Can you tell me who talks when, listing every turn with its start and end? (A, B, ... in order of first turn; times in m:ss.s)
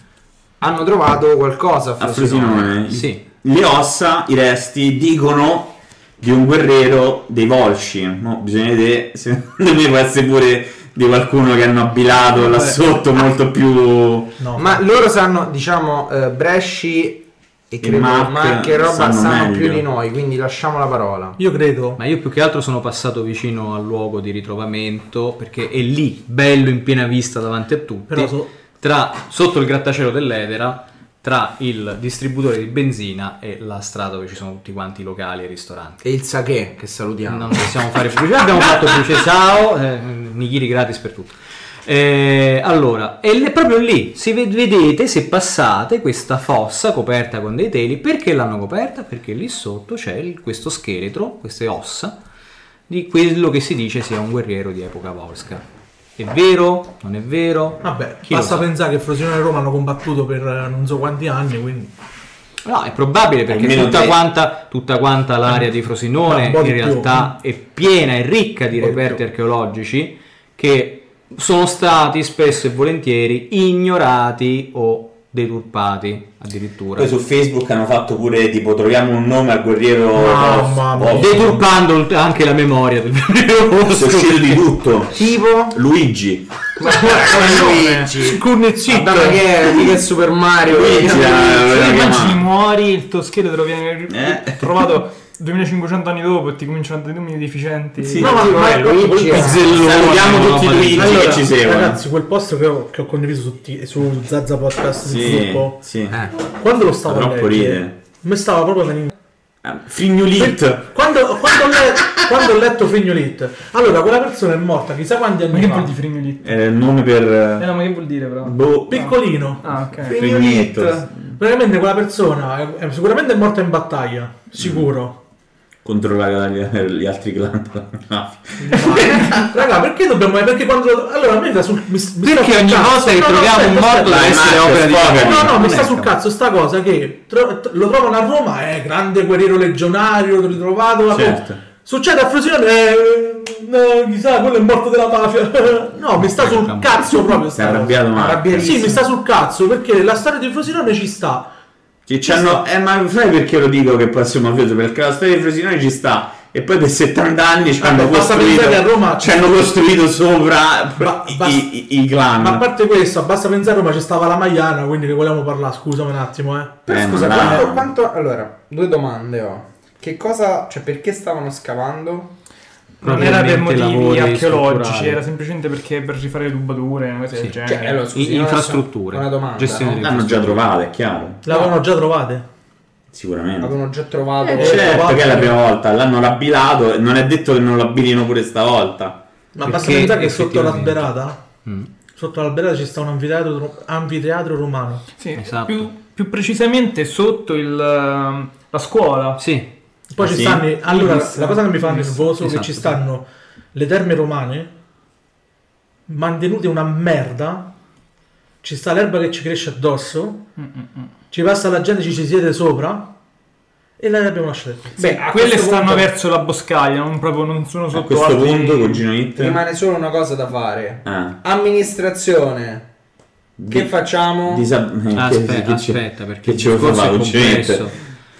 0:00.6-0:03.0 A
0:02.0-0:14.4 B
0:02.9-0:03.2 C
0:14.4-0:14.8 D
0:14.6-0:21.4 A
0:17.8-0:19.8 B
0:21.4-0:22.0 D
0:22.0-0:36.0 C
0:28.1-0:28.5 D
0:36.0-0:37.7 A
0:37.3-0:52.2 C
0:52.9-0:55.6 C
0:56.2-0:58.7 C
0:57.8-1:01.9 D
1:02.6-1:17.1 C
1:03.5-1:04.2 B
1:06.3-1:07.4 D
1:08.9-1:09.2 A
1:17.0-1:21.6 B
1:20.1-1:21.6 D
1:21.1-1:24.7 C
1:23.9-1:25.2 B
1:25.1-1:25.8 A
1:25.7-1:26.5 B
1:26.8-1:31.7 A
1:26.9-1:29.4 D
1:30.7-1:32.4 B
1:31.2-1:38.4 E
1:34.1-1:34.7 B
1:38.0-1:38.6 B
1:38.2-1:39.9 A
1:38.2-1:39.7 D
1:39.3-1:41.5 C
1:39.7-1:42.0 B
1:40.9-1:45.8 D
1:45.0-1:46.2 B
1:46.1-1:46.4 A
1:46.5-1:49.1 D
1:47.0-1:48.0 B
1:49.6-1:50.9 B
1:50.4-1:55.9 D
1:55.5-1:56.5 E
1:56.4-1:57.8 B
1:57.6-2:00.2 E
1:58.4-1:59.1 B
1:58.9-1:59.8 D
2:00.0-2:01.1 A
2:00.1-2:01.2 B
2:01.4-2:05.2 D
2:04.6-2:04.9 B
2:05.8-2:09.3 B
2:08.7-2:09.5 E
2:08.7-2:09.2 A
2:08.8-2:31.5 D
2:12.2-2:16.2 C
2:14.0-2:15.6 B
2:21.1-2:21.6 B
2:26.2-2:27.3 C
2:27.5-2:28.8 B
2:28.1-2:29.0 A
2:32.1-2:42.7 B
2:32.3-2:32.6 D
2:37.8-2:39.5 D
2:41.0-2:41.7 D
2:42.4-2:46.8 D
2:46.9-2:52.3 A
2:46.9-2:47.9 B
2:53.0-2:58.1 E
2:53.0-2:55.2 C
2:57.6-3:00.0 A
2:58.1-3:00.7 C
3:00.0-3:01.4 B
3:01.4-3:02.4 D
3:03.1-3:03.7 B
3:03.6-3:05.1 A
3:04.5-3:09.2 B
3:04.6-3:05.6 D
3:09.6-3:11.4 D
3:09.6-3:11.1 C
3:11.6-3:11.9 C
3:12.2-3:15.0 D
3:15.2-3:19.4 E
3:15.4-3:15.9 C
3:19.4-3:19.7 C
3:20.1-3:24.7 D
3:20.2-3:20.6 C
3:20.8-3:22.3 E
3:22.4-3:23.0 C
3:26.1-3:27.7 D
3:28.6-3:30.5 D
3:30.6-3:31.1 E
3:31.3-3:33.1 D
3:34.0-3:35.0 D
3:35.0-3:36.1 A
3:35.0-3:39.0 E
3:37.9-3:39.6 B
3:39.4-3:42.9 A
3:41.0-3:41.4 B
3:43.6-3:43.9 B
3:43.7-3:44.7 A
3:44.5-3:47.9 B
3:45.1-3:48.0 C